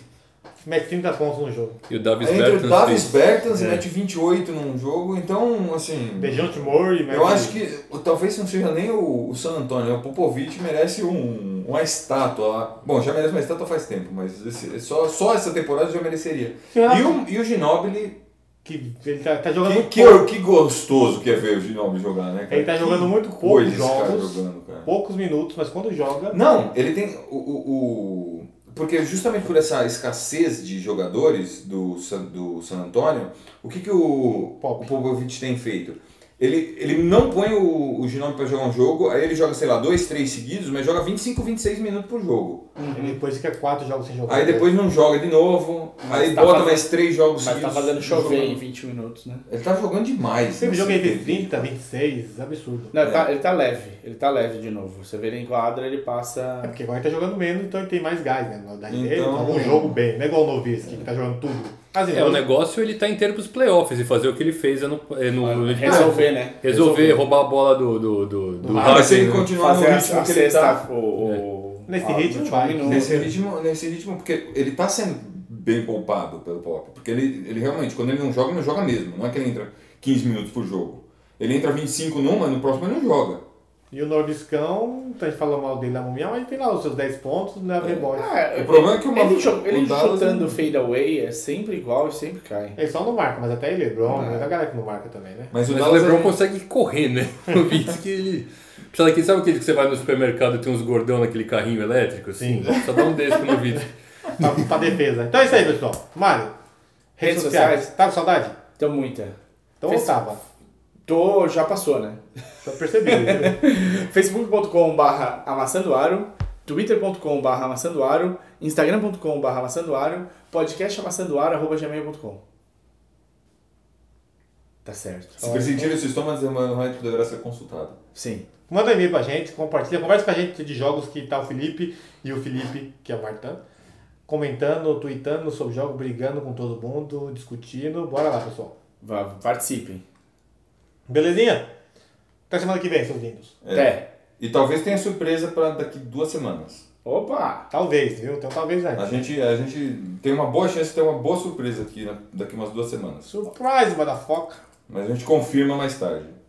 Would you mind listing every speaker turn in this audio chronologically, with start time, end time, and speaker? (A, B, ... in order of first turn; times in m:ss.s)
0:00.6-0:01.8 A
0:01.9-0:03.8 B
0:02.2-0:18.2 C
0:06.2-0:07.6 A
0:16.7-0:17.2 A
0:18.6-0:20.2 A
0:19.6-0:24.9 C
0:22.5-0:26.4 A
0:26.3-0:42.7 C
0:34.6-0:34.9 A
0:42.8-0:43.2 D
0:42.9-0:44.7 A
0:44.3-0:48.6 C
0:46.0-0:49.4 D
0:49.5-0:51.7 C
0:50.6-0:52.9 A
0:52.9-0:56.7 D
0:53.0-0:53.3 C
0:56.6-1:02.4 A
0:58.9-0:59.9 C
1:02.1-1:09.5 B
1:05.4-1:07.2 D
1:05.8-1:06.2 A
1:08.6-1:09.1 A
1:08.8-1:10.8 C
1:08.8-1:13.3 D
1:11.9-1:13.3 A
1:12.8-1:23.4 C
1:23.9-1:28.3 A
1:27.8-1:30.7 C
1:28.1-1:32.8 D
1:32.8-1:35.5 A
1:34.1-1:34.4 D
1:35.5-1:36.3 C
1:35.6-1:43.9 B
1:42.4-1:42.8 A
1:44.4-1:46.5 A
1:47.2-1:48.6 A
1:47.2-1:47.9 D
1:48.8-1:50.1 D
1:49.8-1:50.4 A
1:51.0-1:52.2 D
1:52.6-1:53.6 A
1:53.1-2:02.4 D
2:04.8-2:05.7 D
2:05.4-2:08.0 C
2:05.4-2:05.8 A
2:08.1-2:08.4 D
2:08.7-2:13.6 A
2:14.3-2:18.7 A
2:19.0-2:20.0 D
2:21.1-2:21.7 A
2:22.5-2:23.6 A
2:23.6-2:26.8 C
2:23.7-2:24.0 D
2:27.0-2:27.7 D
2:27.7-2:29.3 A
2:29.0-2:33.3 C
2:33.3-2:34.6 A
2:34.9-2:36.4 C